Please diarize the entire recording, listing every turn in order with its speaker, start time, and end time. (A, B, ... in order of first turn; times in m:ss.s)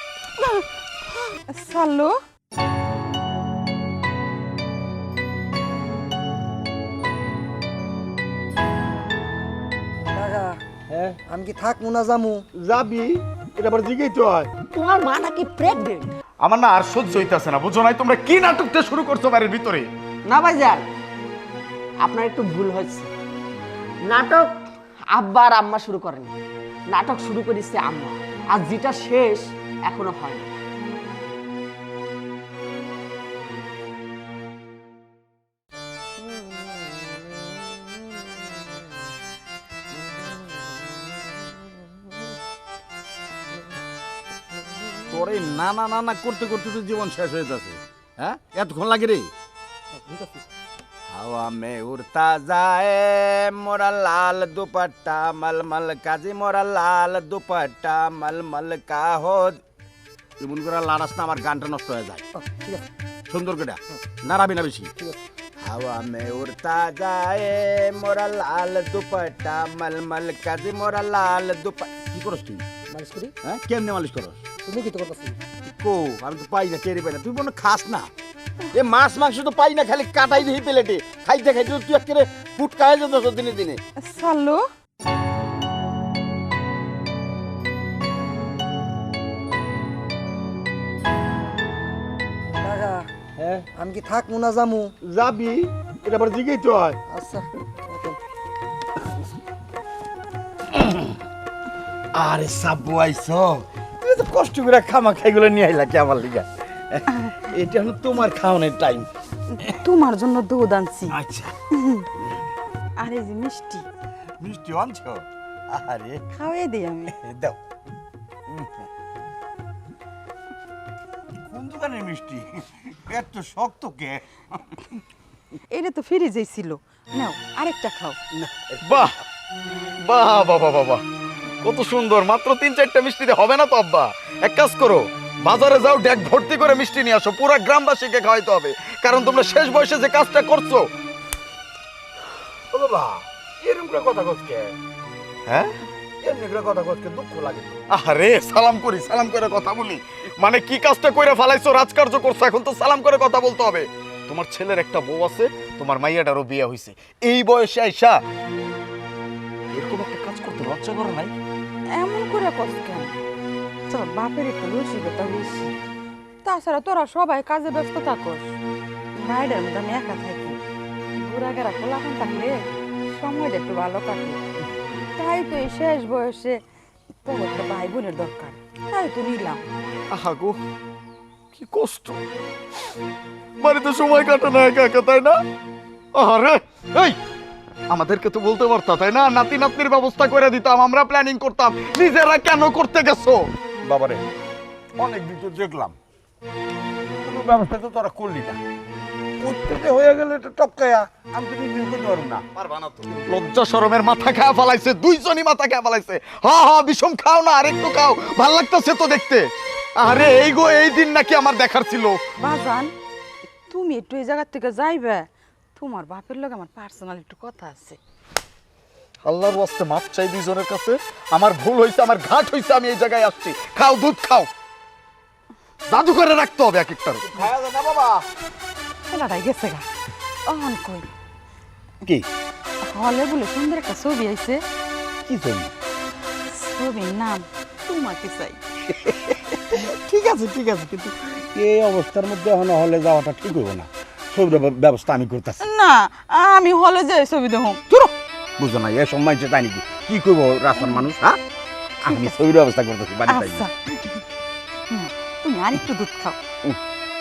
0:01.3-0:02.2 A
0:10.1-0:10.6 B
0:11.2-0:12.4 B
0:12.6-0:14.5 C
0:14.7-0:16.1 D
0:16.4-0:19.9 E
0:20.3-0:20.8 D
0:22.0-0:23.1 D
0:24.1-0:24.5 D
0:25.1-0:26.3 D
0:26.9-0:30.5 D
0:45.0-0:49.3 C
0:51.1-0:59.6 C
1:00.4-1:02.2 C
1:02.3-1:02.9 B
1:03.3-1:04.9 C
1:05.7-1:12.7 C
1:12.9-1:13.3 D
1:13.4-1:14.4 C
1:14.6-1:15.4 B
1:15.7-1:18.1 C
1:18.7-1:23.8 C
1:24.0-1:24.6 A
1:32.6-1:33.1 B
1:33.7-1:34.9 B
1:35.0-1:37.0 C
1:37.1-1:38.2 B
1:40.7-1:41.0 C
1:42.1-1:49.1 C
1:49.6-1:51.2 A
1:51.1-1:51.5 C
1:53.0-1:53.8 A
1:54.4-1:56.2 C
1:56.3-1:57.1 A
1:57.1-1:57.6 C
1:58.5-1:58.8 C
2:01.4-2:04.8 C
2:05.7-2:08.2 A
2:08.3-2:09.1 C
2:08.8-2:09.1 E
2:10.1-2:11.0 E
2:11.6-2:20.8 E
2:22.7-2:24.7 C
2:26.2-2:27.8 C
2:27.9-2:38.2 E
2:39.7-2:41.3 E
2:42.0-2:43.2 A
2:43.9-2:45.7 A
2:46.4-2:48.5 A
2:49.2-2:50.6 A
2:51.2-2:54.4 A
2:55.2-2:56.6 A
2:57.2-2:59.6 A
3:00.1-3:00.6 E
3:01.5-3:02.2 E
3:03.6-3:05.4 E
3:06.2-3:07.2 E
3:07.9-3:13.4 E
3:13.8-3:14.2 C
3:15.0-3:16.0 C
3:17.2-3:18.6 C
3:19.4-3:22.4 C
3:22.6-3:29.5 E
3:30.0-3:32.2 E
3:32.4-3:32.9 A
3:33.7-3:38.0 A
3:39.2-3:44.5 E
3:45.9-3:47.2 E
3:47.3-3:48.2 C
3:49.1-3:49.8 A
3:50.5-3:51.1 A
3:52.9-3:54.6 A
3:55.2-3:55.7 C
3:56.5-3:58.6 A
3:58.9-4:05.6 C
4:05.6-4:07.8 A
4:08.0-4:11.4 C
4:12.0-4:13.6 C
4:12.0-4:12.3 A
4:13.3-4:14.2 A
4:14.9-4:16.4 A